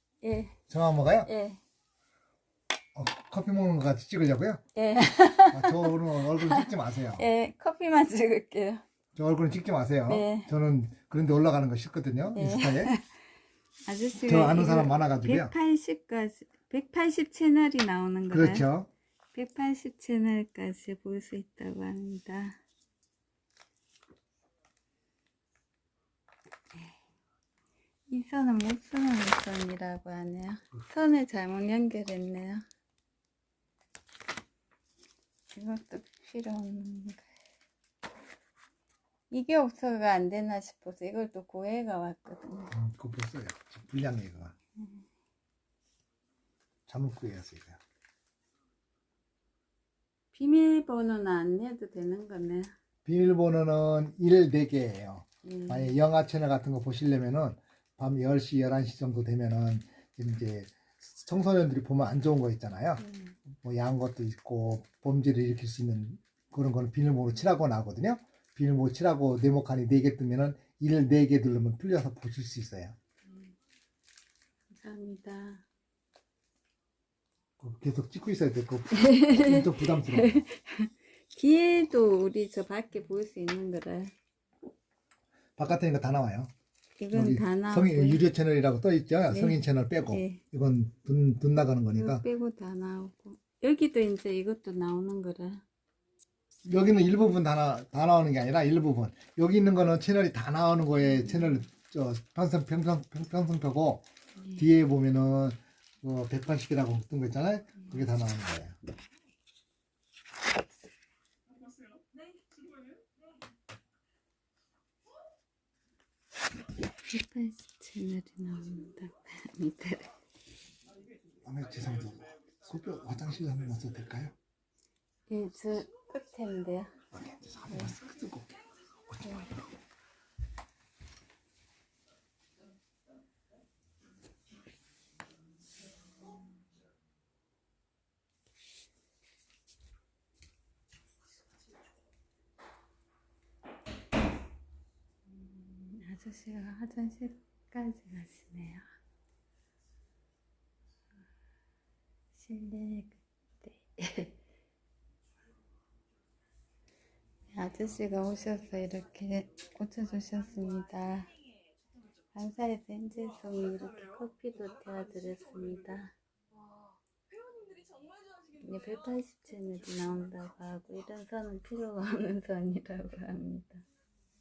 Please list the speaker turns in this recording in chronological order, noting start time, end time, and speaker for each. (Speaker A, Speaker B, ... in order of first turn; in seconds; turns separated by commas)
Speaker A: 0.2-0.6, Speaker B: 0.7-1.3, Speaker A: 1.2-1.6, Speaker B: 3.0-4.6, Speaker A: 4.8-8.8, Speaker B: 5.5-7.2, Speaker B: 9.1-12.9, Speaker A: 10.1-10.5, Speaker A: 12.3-13.0, Speaker A: 13.9-18.6, Speaker B: 14.2-15.5, Speaker B: 18.3-18.9, Speaker A: 19.3-22.6, Speaker A: 28.1-32.6, Speaker A: 35.5-37.2, Speaker A: 39.3-42.7, Speaker B: 42.7-44.5, Speaker B: 46.9-47.8, Speaker A: 50.3-52.7, Speaker B: 53.0-73.0, Speaker A: 55.4-56.0, Speaker A: 63.0-63.3, Speaker A: 74.7-75.6, Speaker B: 77.6-80.4, Speaker A: 78.9-84.1, Speaker B: 85.6-86.5, Speaker A: 87.0-88.2, Speaker B: 87.1-92.2, Speaker A: 89.3-90.4, Speaker A: 92.0-95.6, Speaker B: 96.7-108.8, Speaker A: 101.0-101.6, Speaker A: 117.1-120.1, Speaker B: 121.4-124.3, Speaker A: 125.3-126.9, Speaker B: 127.1-128.5, Speaker A: 129.2-129.5, Speaker A: 145.2-148.8, Speaker A: 152.3-154.3, Speaker A: 157.5-161.3, Speaker A: 162.3-166.1, Speaker A: 168.6-173.8